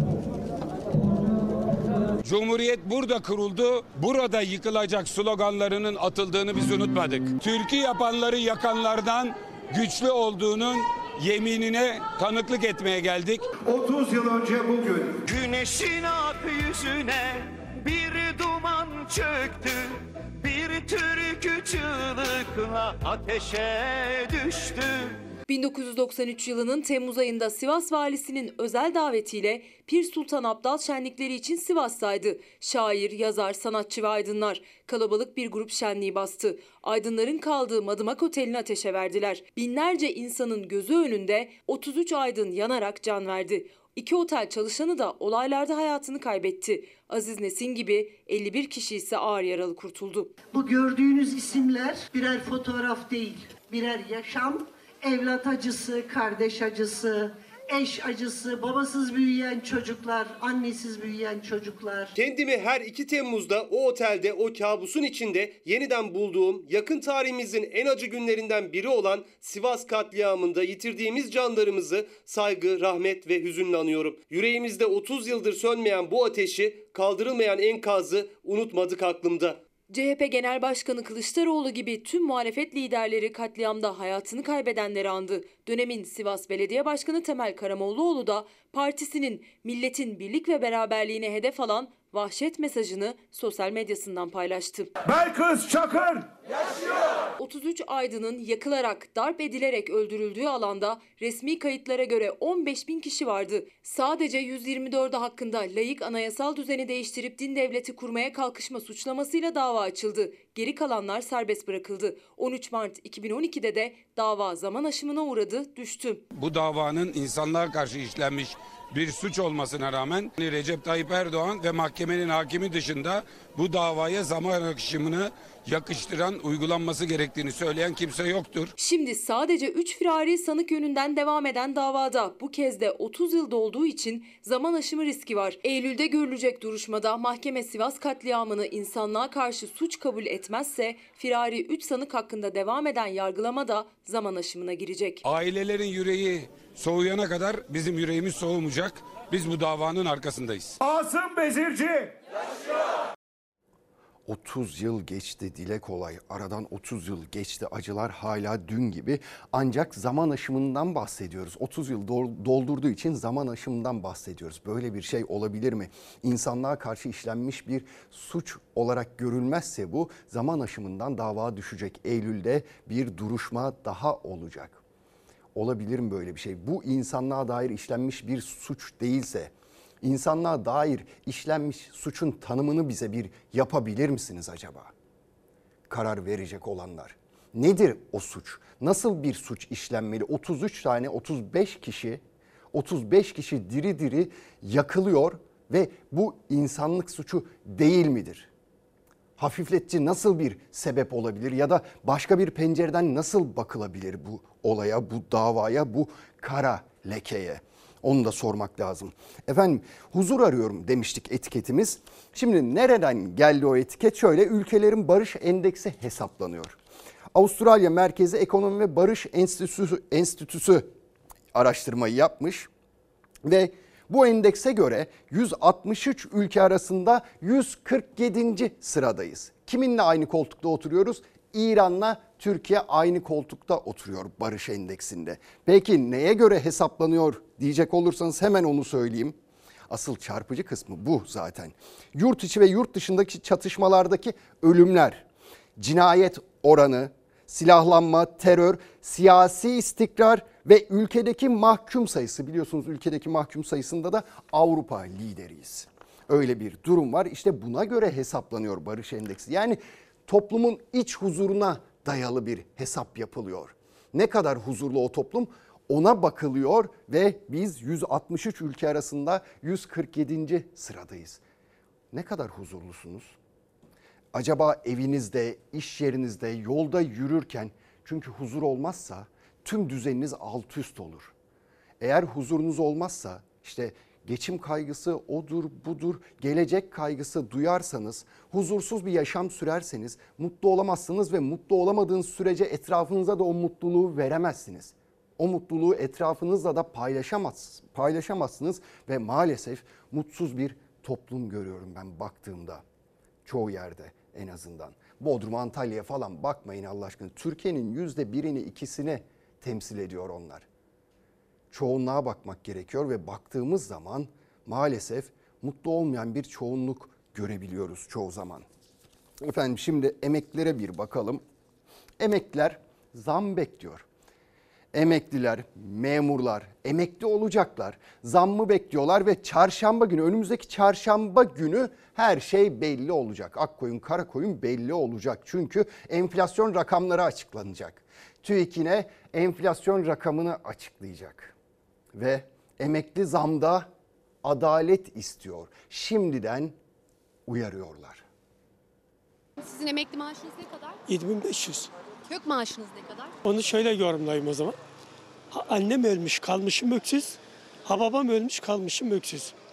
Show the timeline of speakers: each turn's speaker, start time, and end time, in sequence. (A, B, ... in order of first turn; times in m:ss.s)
0:02.2-0:13.4 A
0:13.7-0:15.2 B
0:15.2-0:25.2 C
0:25.5-0:50.3 D
0:50.5-1:02.1 E
1:02.2-1:19.6 F
1:19.9-1:34.9 D
1:35.1-1:36.3 B
1:37.4-1:56.2 D
1:56.3-2:08.7 A
2:08.8-2:25.2 D
2:25.2-2:30.8 A
2:30.8-2:32.1 B
2:34.3-2:54.8 G
2:55.5-3:04.9 G
3:05.9-3:18.5 G
3:19.4-3:36.8 G
3:37.3-3:40.9 G
3:41.5-3:42.7 G
3:43.4-3:59.4 G
3:59.9-4:05.3 G
4:05.8-4:31.4 G
4:32.1-4:33.4 G
4:34.3-4:41.3 G
4:42.0-5:02.8 G
5:03.4-5:10.7 G
5:11.7-5:18.7 G
5:19.4-5:21.4 G
5:22.2-5:24.0 G
5:24.9-5:41.5 G
5:42.1-5:43.9 G
5:44.4-5:46.8 G
5:47.5-5:48.2 G
5:49.6-5:51.0 H
5:51.1-5:51.9 I
5:52.3-5:53.3 H
5:53.4-5:54.8 I
5:55.5-5:59.5 I